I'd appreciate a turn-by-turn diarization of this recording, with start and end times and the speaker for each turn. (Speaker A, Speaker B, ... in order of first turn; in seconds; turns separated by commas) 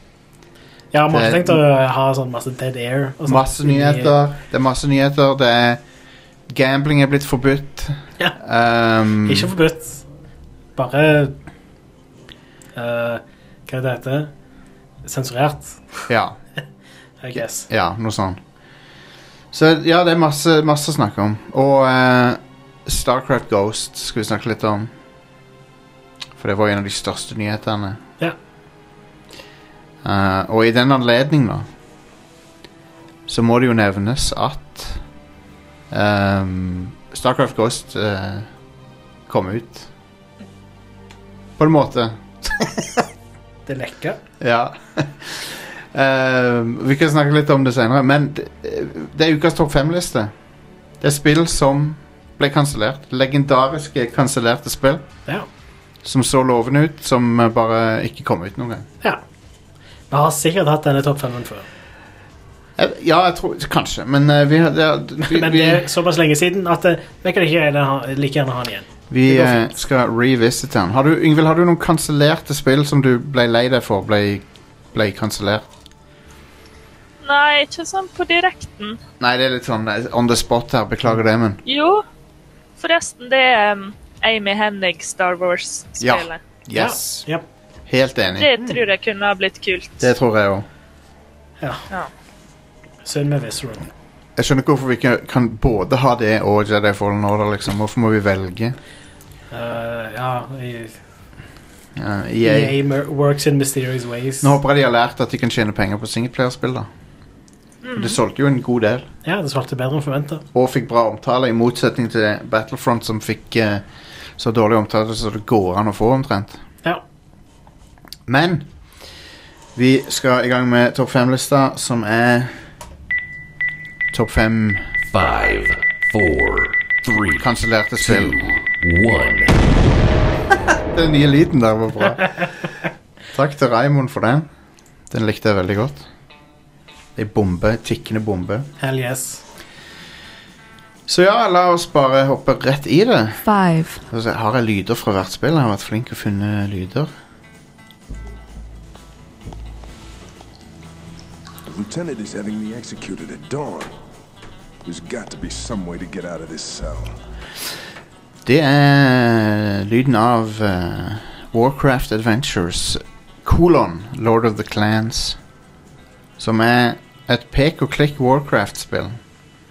Speaker A: 0.9-4.1, Speaker B: 1.1-1.6, Speaker B: 3.2-5.8, Speaker B: 6.5-9.5, Speaker A: 9.2-10.0, Speaker A: 10.8-11.4, Speaker A: 12.8-14.3, Speaker A: 15.0-16.0, Speaker B: 16.1-16.4, Speaker A: 17.2-17.7, Speaker B: 17.3-18.4, Speaker B: 19.5-24.9, Speaker B: 26.4-28.0, Speaker B: 30.0-31.7, Speaker B: 33.3-35.0, Speaker B: 35.9-38.5, Speaker B: 39.3-39.9, Speaker B: 41.6-43.1, Speaker A: 43.7-44.2, Speaker B: 44.4-50.3, Speaker B: 51.0-55.0, Speaker B: 56.0-58.9, Speaker A: 60.1-61.7, Speaker B: 62.8-65.8, Speaker A: 65.3-69.7, Speaker B: 69.1-75.7, Speaker C: 77.2-79.0, Speaker B: 79.2-81.6, Speaker C: 81.6-82.0, Speaker C: 82.8-86.4, Speaker B: 86.0-87.2, Speaker A: 86.7-87.5, Speaker B: 87.9-88.5, Speaker C: 88.4-90.1, Speaker B: 90.0-90.7, Speaker A: 91.6-91.9, Speaker A: 93.0-93.9, Speaker B: 94.4-98.8, Speaker A: 99.5-101.0, Speaker B: 102.0-102.7, Speaker A: 102.4-104.5, Speaker B: 104.4-106.9, Speaker C: 107.8-108.2, Speaker B: 107.9-109.0, Speaker A: 109.2-110.4, Speaker B: 110.5-113.8, Speaker B: 114.4-116.6, Speaker B: 118.3-118.7, Speaker B: 119.7-122.5, Speaker B: 124.1-124.8, Speaker D: 125.1-127.5, Speaker B: 127.4-128.4, Speaker D: 128.0-129.6, Speaker B: 130.9-132.4, Speaker B: 133.3-134.5, Speaker B: 135.1-136.0, Speaker B: 137.2-138.7, Speaker A: 138.8-139.4, Speaker B: 141.1-143.5, Speaker D: 143.4-144.0, Speaker B: 144.1-147.1, Speaker E: 151.7-153.9, Speaker E: 154.8-157.2, Speaker B: 158.4-165.4, Speaker B: 166.4-169.2